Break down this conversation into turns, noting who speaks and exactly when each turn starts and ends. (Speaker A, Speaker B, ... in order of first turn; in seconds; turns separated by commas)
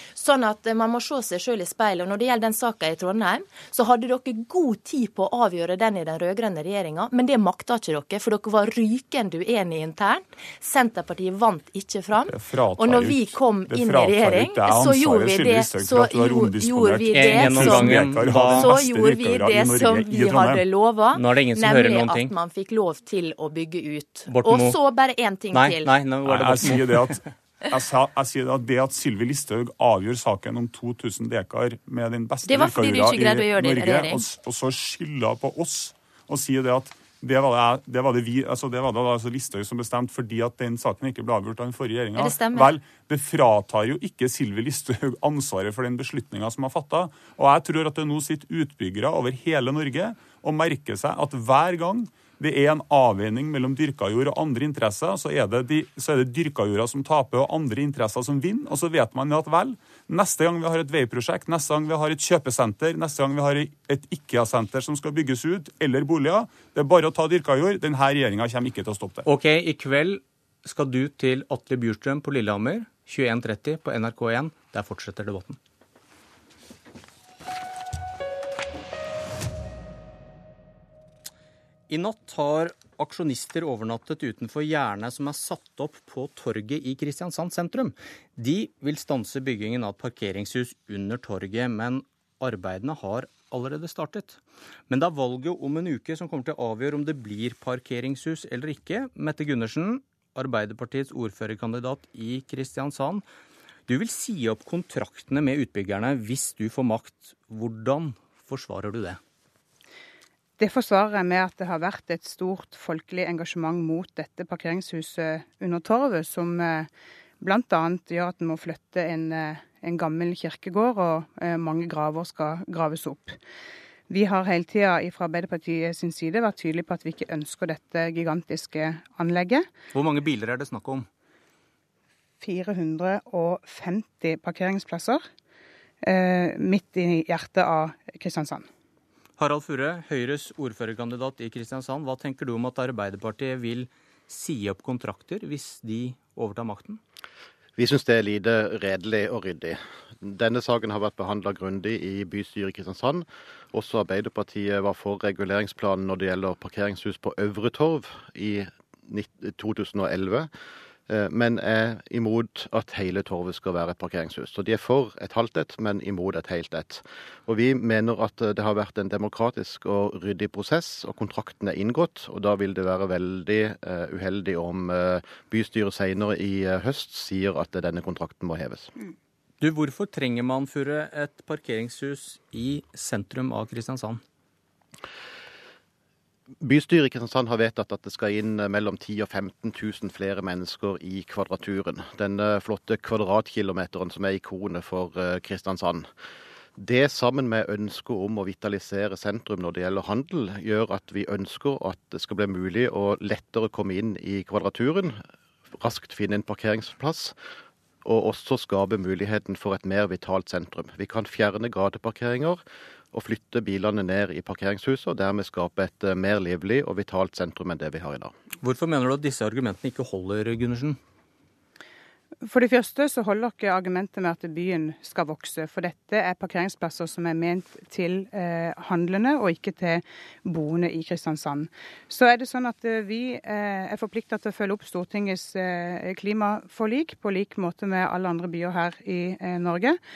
Speaker A: 0.1-25.9, Speaker B: 12.3-20.6, Speaker C: 17.1-18.7, Speaker C: 21.1-22.3, Speaker C: 24.3-24.8, Speaker C: 25.5-27.2, Speaker B: 26.2-69.2, Speaker A: 32.4-34.3, Speaker A: 42.1-42.7, Speaker C: 69.2-75.6, Speaker C: 81.9-103.2, Speaker C: 103.9-109.2, Speaker D: 110.6-116.9, Speaker D: 117.4-123.4, Speaker D: 124.1-129.6, Speaker C: 129.9-131.1, Speaker D: 132.4-135.2, Speaker D: 136.0-138.6, Speaker C: 139.4-147.0, Speaker E: 147.8-160.5, Speaker E: 161.1-178.9, Speaker C: 179.6-184.2, Speaker E: 186.6-196.1, Speaker E: 196.8-205.2, Speaker E: 205.8-207.3, Speaker E: 208.0-212.6, Speaker E: 213.1-218.3, Speaker C: 218.6-221.0, Speaker D: 222.4-240.0